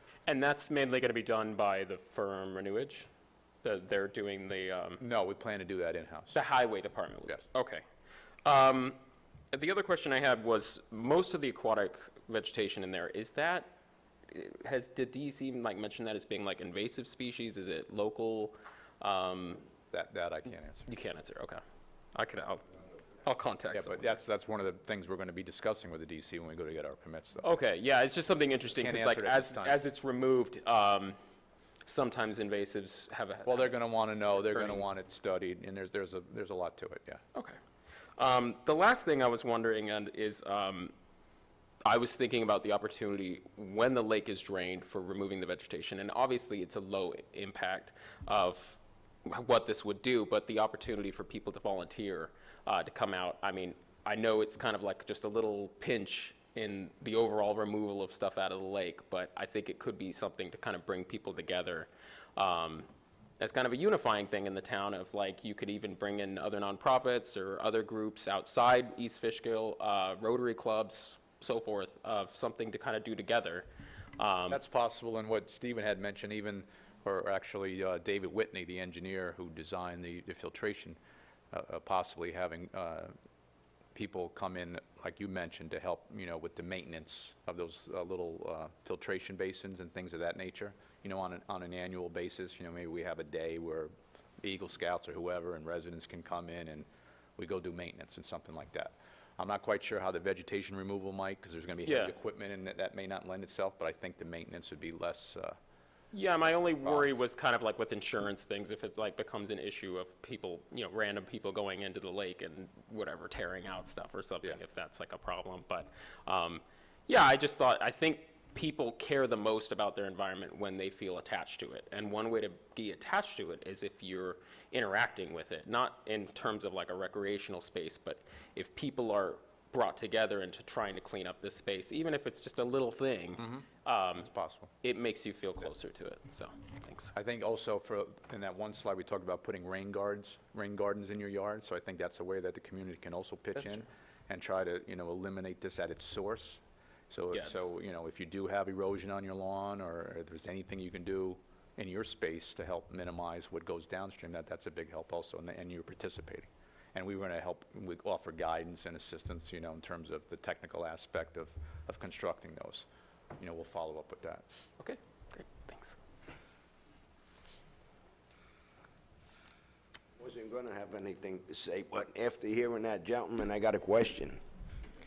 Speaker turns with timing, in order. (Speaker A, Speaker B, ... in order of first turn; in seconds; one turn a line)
Speaker A: 0.3-3.1
Speaker A: 3.6-5.0
Speaker B: 5.0-6.4
Speaker A: 6.3-7.8
Speaker A: 8.4-9.0
Speaker A: 9.5-13.7
Speaker A: 14.3-19.6
Speaker B: 19.9-20.9
Speaker A: 20.9-21.6
Speaker A: 22.1-22.6
Speaker A: 23.2-24.0
Speaker B: 23.7-27.4
Speaker A: 27.4-31.1
Speaker B: 28.8-29.8
Speaker A: 31.9-34.9
Speaker B: 33.5-37.2
Speaker A: 38.2-40.9
Speaker A: 41.8-62.9
Speaker A: 63.4-73.7
Speaker A: 74.2-74.6
Speaker B: 74.5-81.0
Speaker B: 81.5-83.1
Speaker B: 84.0-93.9
Speaker B: 94.4-96.9
Speaker B: 97.4-105.6
Speaker A: 101.8-102.1
Speaker A: 106.1-134.3
Speaker B: 106.5-107.1
Speaker B: 133.4-133.7
Speaker B: 134.2-134.7
Speaker A: 134.8-137.1
Speaker B: 137.1-146.6
Speaker B: 147.1-162.8
Speaker A: 147.3-147.7
Speaker B: 163.4-164.7
Speaker A: 164.8-166.0
Speaker C: 170.2-174.4